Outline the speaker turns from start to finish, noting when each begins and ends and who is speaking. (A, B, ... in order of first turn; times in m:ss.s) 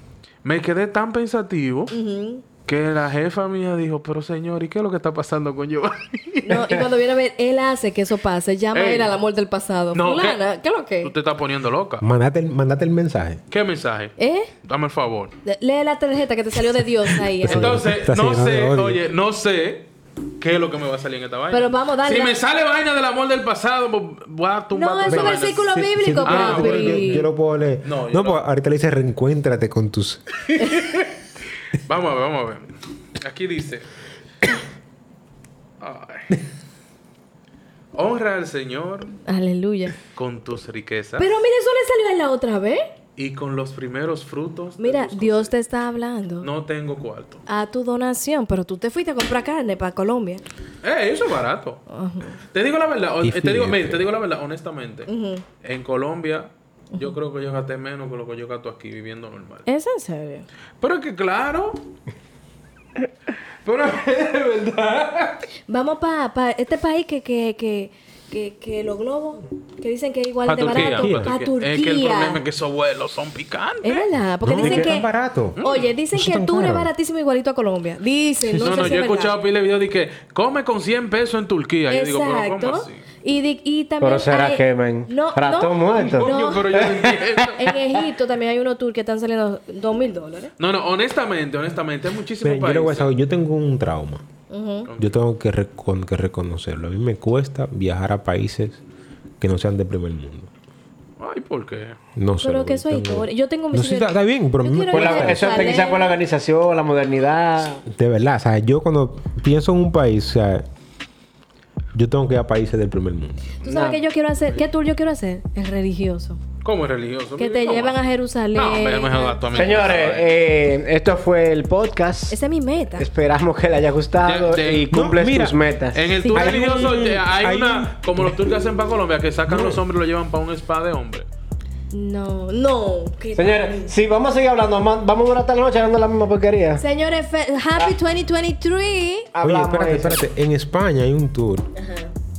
0:00.4-0:01.9 A
0:01.9-0:02.4 B
0:02.6-0:06.9 A
0:06.4-0:11.1 B
0:08.7-0:09.1 A
0:09.9-0:10.4 A
0:11.0-0:12.0 A
0:12.0-0:13.4 C
0:13.5-0:15.3 A
0:14.2-0:14.5 B
0:15.4-0:17.8 B
0:17.4-0:19.0 C
0:17.5-0:19.9 A
0:20.4-0:25.7 A
0:21.5-0:22.3 B
0:24.7-0:27.3 B
0:25.0-0:30.4 C
0:26.2-0:27.2 A
0:27.8-0:28.4 A
0:30.6-0:31.0 B
0:30.8-0:31.0 A
0:31.7-0:33.9 A
0:35.8-0:36.4 A
0:37.9-0:39.1 A
0:39.2-0:40.0 B
0:40.1-0:41.3 A
0:41.2-0:42.9 B
0:43.2-0:45.5 A
0:44.8-0:46.5 B
0:46.4-0:47.4 A
0:47.5-0:50.4 B
0:50.8-0:51.8 A
0:51.9-0:52.4 B
0:52.5-0:55.1 A
0:53.2-0:54.0 C
0:55.1-0:55.4 B
0:55.6-0:59.6 A
0:59.7-1:00.4 B
1:00.8-1:01.8 A
1:03.6-1:05.4 A
1:05.7-1:12.4 B
1:10.4-1:14.1 A
1:10.7-1:11.3 C
1:13.8-1:15.1 B
1:14.4-1:15.6 C
1:14.6-1:14.9 D
1:15.6-1:15.9 A
1:15.6-1:19.3 B
1:16.1-1:16.9 C
1:18.5-1:18.9 C
1:18.5-1:23.0 A
1:21.9-1:26.8 B
1:24.0-1:27.6 D
1:25.9-1:27.7 A
1:27.5-1:30.5 B
1:30.6-1:33.1 A
1:32.4-1:34.2 C
1:34.5-1:34.9 B
1:34.9-1:35.2 A
1:35.0-1:38.8 C
1:39.4-1:40.5 C
1:41.2-1:42.0 A
1:42.2-1:45.8 C
1:42.4-1:46.1 B
1:44.9-1:47.8 D
1:47.9-1:50.6 C
1:51.9-1:53.5 C
1:53.6-1:56.4 B
1:53.6-1:54.0 D
1:56.6-1:58.0 A
1:57.4-1:59.8 B
1:58.5-2:00.3 A
1:59.5-2:02.4 D
2:02.3-2:03.1 B
2:03.0-2:06.0 D
2:04.2-2:04.9 A
2:04.9-2:05.6 C
2:05.9-2:11.3 A
2:06.2-2:07.1 B
2:06.3-2:08.6 C
2:09.5-2:09.8 C
2:11.9-2:13.9 B
2:13.3-2:16.8 D
2:16.8-2:19.3 B
2:19.4-2:20.2 D
2:19.4-2:21.7 C
2:21.7-2:22.1 B